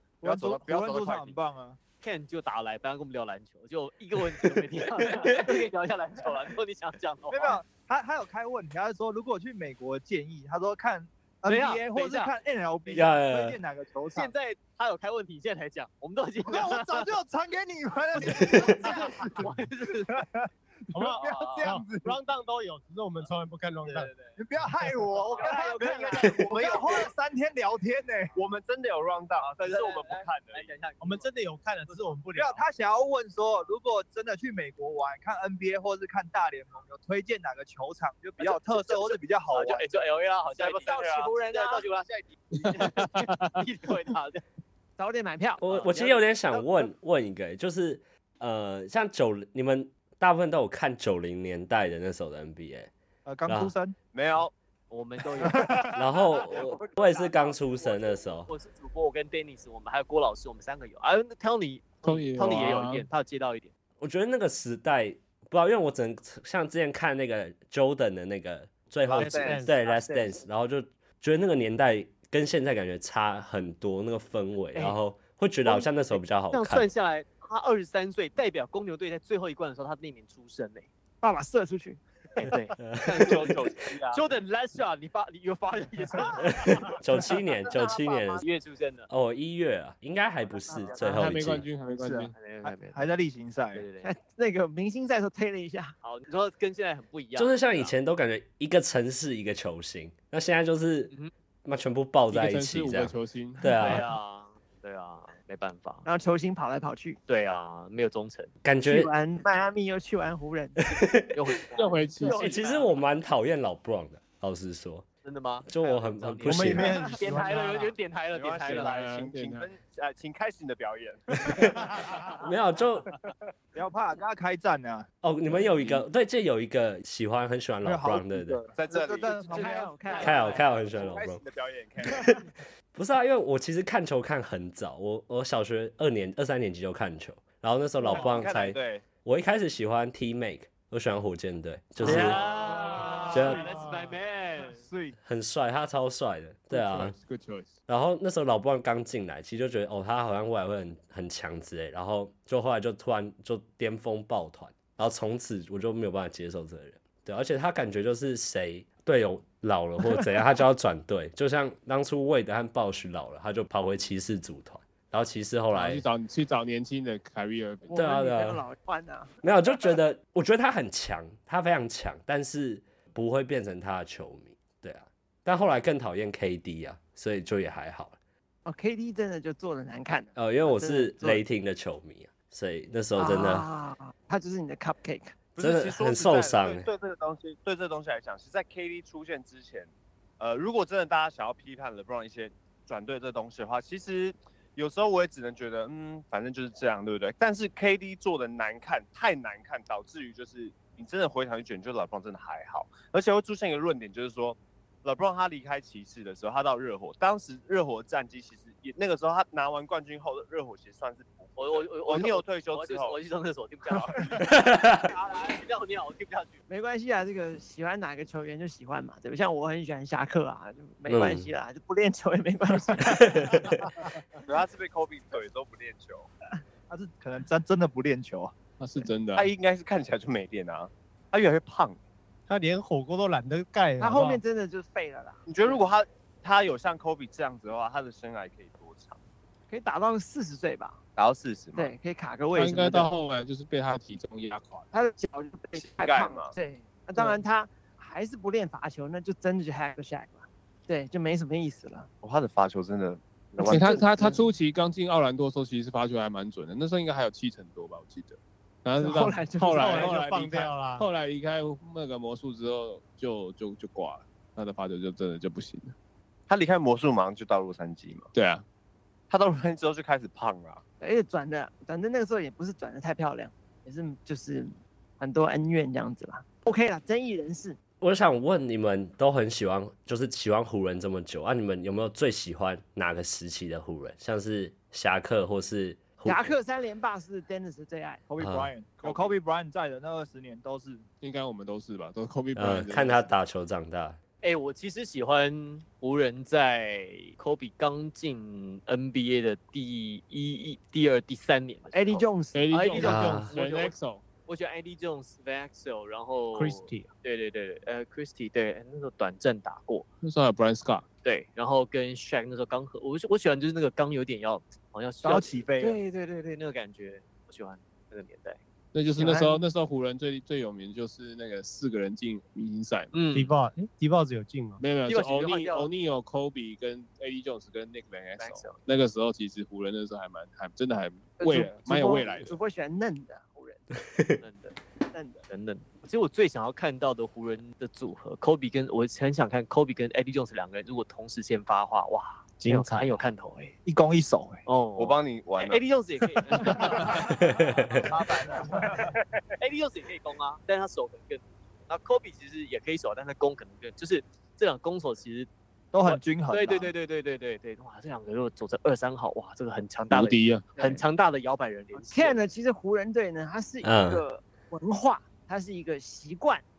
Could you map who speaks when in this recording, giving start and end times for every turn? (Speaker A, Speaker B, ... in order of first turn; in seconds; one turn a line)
Speaker A: 0.2-1.8
Speaker B: 0.2-1.4
Speaker C: 2.0-7.6
Speaker A: 7.3-14.3
Speaker C: 11.4-12.3
Speaker D: 12.9-13.6
Speaker C: 14.1-17.1
Speaker A: 16.5-19.5
Speaker C: 18.1-20.2
Speaker A: 20.1-22.2
Speaker E: 20.9-24.1
Speaker C: 21.2-21.7
Speaker C: 23.8-24.4
Speaker A: 24.4-28.4
Speaker C: 25.3-26.8
Speaker B: 25.4-27.1
Speaker F: 25.6-26.0
Speaker B: 28.4-30.7
Speaker C: 29.4-31.3
Speaker E: 31.0-32.6
Speaker C: 31.9-32.1
Speaker A: 32.4-39.9
Speaker C: 38.4-44.4
Speaker B: 40.5-41.9
Speaker F: 41.3-41.8
Speaker G: 42.8-43.3
Speaker F: 45.0-45.6
Speaker D: 45.6-52.9
Speaker C: 45.7-46.7
Speaker A: 53.3-54.0
Speaker D: 53.5-53.7
Speaker B: 54.1-54.5
Speaker C: 54.9-55.9
Speaker A: 55.4-55.9
Speaker D: 55.9-58.5
Speaker C: 56.5-63.7
Speaker G: 62.0-63.1
Speaker D: 64.0-76.9
Speaker B: 69.1-69.7
Speaker E: 69.1-70.1
Speaker C: 75.6-80.9
Speaker F: 81.2-82.0
Speaker C: 82.3-83.6
Speaker D: 82.8-83.4
Speaker B: 83.1-84.2
Speaker C: 84.1-86.9
Speaker D: 86.5-88.5
Speaker F: 87.8-88.2
Speaker C: 88.4-89.1
Speaker D: 89.1-91.7
Speaker G: 91.0-92.3
Speaker A: 92.0-93.8
Speaker C: 92.4-93.1
Speaker C: 93.7-94.1
Speaker F: 94.0-96.0
Speaker C: 96.0-98.0
Speaker D: 97.4-101.1
Speaker D: 101.7-104.1
Speaker G: 102.3-103.8
Speaker C: 103.8-106.1
Speaker F: 106.0-107.2
Speaker C: 107.3-108.5
Speaker D: 108.6-109.1
Speaker F: 108.8-110.8
Speaker D: 110.9-111.3
Speaker C: 111.3-113.0
Speaker G: 111.7-112.5
Speaker D: 112.3-115.1
Speaker C: 115.2-119.0
Speaker D: 115.7-117.0
Speaker E: 116.5-117.9
Speaker B: 118.3-122.3
Speaker G: 118.7-119.7
Speaker D: 121.5-121.9
Speaker D: 122.4-123.1
Speaker A: 123.8-125.1
Speaker D: 125.2-128.6
Speaker A: 127.8-130.3
Speaker B: 128.7-129.4
Speaker F: 129.4-130.6
Speaker C: 129.5-131.0
Speaker D: 130.2-131.4
Speaker B: 130.2-132.3
Speaker D: 132.1-142.4
Speaker B: 138.2-139.1
Speaker C: 142.0-144.8
Speaker E: 142.1-143.9
Speaker A: 142.8-143.6
Speaker D: 143.3-143.7
Speaker A: 144.7-145.2
Speaker D: 145.2-147.2
Speaker G: 146.7-147.7
Speaker D: 147.9-166.1
Speaker G: 165.7-168.0
Speaker F: 167.9-169.3
Speaker D: 167.9-168.6
Speaker D: 169.4-178.2
Speaker F: 178.7-181.4
Speaker D: 180.4-183.7
Speaker F: 183.2-185.4
Speaker B: 185.6-213.2
Speaker D: 185.6-186.9
Speaker C: 211.6-216.6
Speaker D: 214.5-215.0
Speaker F: 216.7-223.6
Speaker D: 221.1-221.5
Speaker D: 223.1-223.7
Speaker B: 224.4-226.3
Speaker A: 226.9-228.6
Speaker G: 228.8-229.5
Speaker B: 229.3-232.0
Speaker E: 232.5-234.4
Speaker F: 234.0-235.5
Speaker B: 235.5-239.2
Speaker F: 239.7-241.0
Speaker B: 241.2-241.9
Speaker F: 241.8-243.1
Speaker G: 242.5-244.9
Speaker F: 244.9-252.1
Speaker B: 245.8-246.6
Speaker B: 252.2-254.1
Speaker G: 253.6-265.9
Speaker F: 253.7-254.4
Speaker F: 259.0-260.1
Speaker E: 259.7-261.1
Speaker B: 266.5-268.3
Speaker G: 268.3-268.6
Speaker B: 269.3-270.8
Speaker F: 271.0-277.8
Speaker D: 278.0-286.5
Speaker F: 286.2-288.2
Speaker A: 288.3-291.1
Speaker D: 288.4-288.7
Speaker C: 289.0-289.3
Speaker G: 291.2-293.4
Speaker D: 292.6-294.2
Speaker C: 294.4-310.1
Speaker F: 301.9-303.1
Speaker G: 302.5-304.2
Speaker D: 303.0-303.5
Speaker E: 306.6-307.1
Speaker G: 310.2-311.1
Speaker C: 311.2-318.6
Speaker A: 315.2-316.0
Speaker G: 318.9-323.2
Speaker F: 319.1-319.6
Speaker C: 323.1-323.5
Speaker E: 323.3-324.8
Speaker G: 324.8-332.6
Speaker C: 325.1-325.9
Speaker C: 328.4-328.8
Speaker F: 331.4-333.9
Speaker C: 334.4-334.8
Speaker F: 335.1-335.4
Speaker C: 335.5-343.8
Speaker E: 342.6-343.2
Speaker A: 343.9-344.6
Speaker C: 344.7-347.4
Speaker B: 345.0-345.8
Speaker D: 347.4-347.9
Speaker A: 347.9-349.1
Speaker C: 349.6-355.5
Speaker A: 355.9-356.9
Speaker C: 356.1-362.4
Speaker G: 360.1-361.0
Speaker F: 361.9-366.6
Speaker D: 363.8-364.2